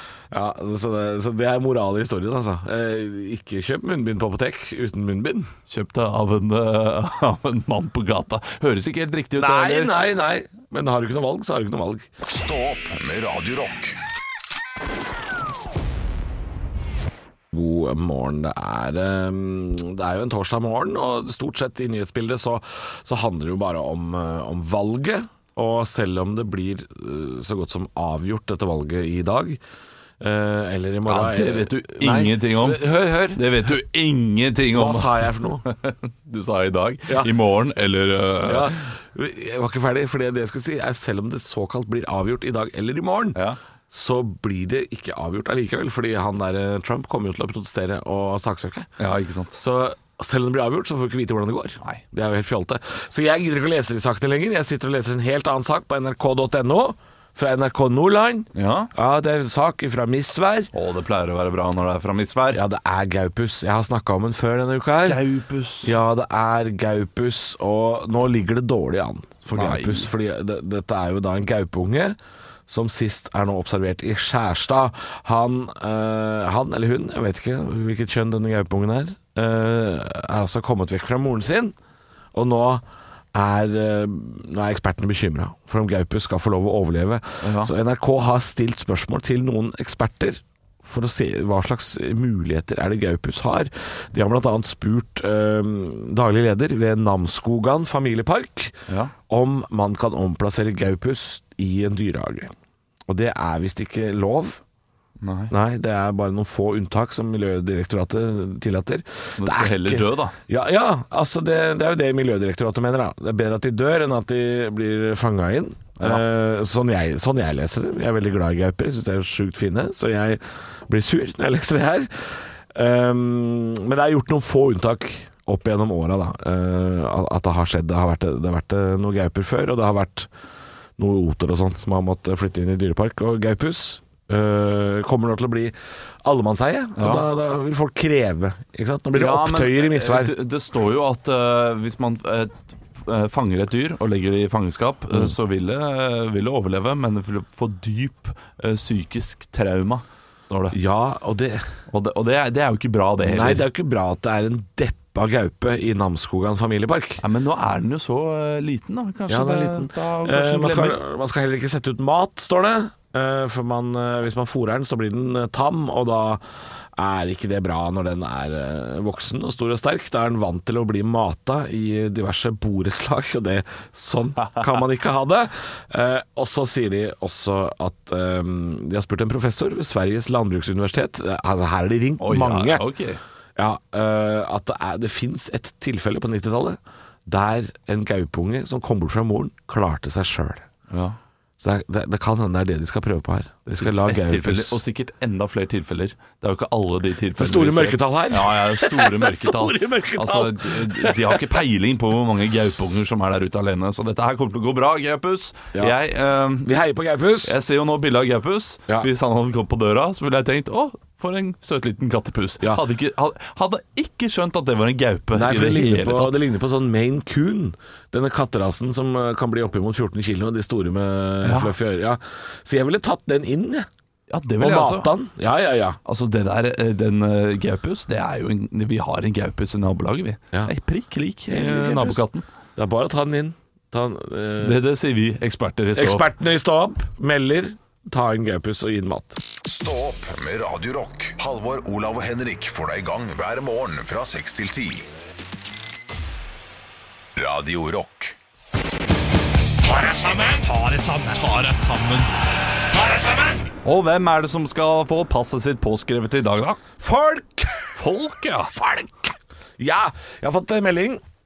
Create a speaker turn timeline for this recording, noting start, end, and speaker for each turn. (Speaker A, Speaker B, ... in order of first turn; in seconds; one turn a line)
Speaker A: 0.3-5.5
Speaker B: 5.7-9.9
Speaker A: 9.4-12.1
Speaker C: 12.2-14.0
Speaker A: 17.5-29.6
Speaker A: 30.2-33.7
Speaker B: 31.1-38.8
Speaker A: 34.7-35.7
Speaker A: 38.4-48.9
Speaker B: 49.0-49.6
Speaker A: 49.6-60.7
Speaker B: 58.5-58.9
Speaker B: 60.7-62.6
Speaker A: 62.5-65.2
Speaker B: 65.0-66.0
Speaker A: 65.8-72.2
Speaker B: 69.5-70.1
Speaker A: 72.7-81.8
Speaker A: 82.3-102.5
Speaker B: 87.4-87.7
Speaker B: 98.9-99.1
Speaker A: 103.1-104.6
Speaker B: 105.2-105.5
Speaker A: 105.5-122.1
Speaker B: 109.4-110.3
Speaker A: 122.7-130.3
Speaker A: 131.0-140.3
Speaker B: 137.0-137.2
Speaker B: 139.1-150.8
Speaker A: 150.7-151.7
Speaker B: 151.9-153.7
Speaker A: 153.2-157.2
Speaker B: 157.2-161.0
Speaker A: 159.3-166.4
Speaker A: 167.0-182.8
Speaker B: 182.2-183.2
Speaker A: 183.6-190.7
Speaker B: 190.9-191.2
Speaker A: 191.6-194.8
Speaker B: 193.7-206.7
Speaker A: 197.4-201.5
Speaker A: 206.6-207.6
Speaker B: 207.4-216.4
Speaker A: 215.3-223.9
Speaker B: 221.4-221.7
Speaker B: 224.3-225.2
Speaker A: 224.6-226.0
Speaker B: 226.1-232.4
Speaker A: 231.5-232.2
Speaker A: 232.8-234.8
Speaker B: 234.6-236.3
Speaker A: 235.9-239.4
Speaker C: 239.6-245.1
Speaker C: 247.4-248.4
Speaker A: 249.9-250.6
Speaker B: 250.4-252.3
Speaker A: 252.9-253.6
Speaker B: 253.8-256.8
Speaker A: 257.0-258.0
Speaker B: 258.0-258.7
Speaker A: 258.6-261.2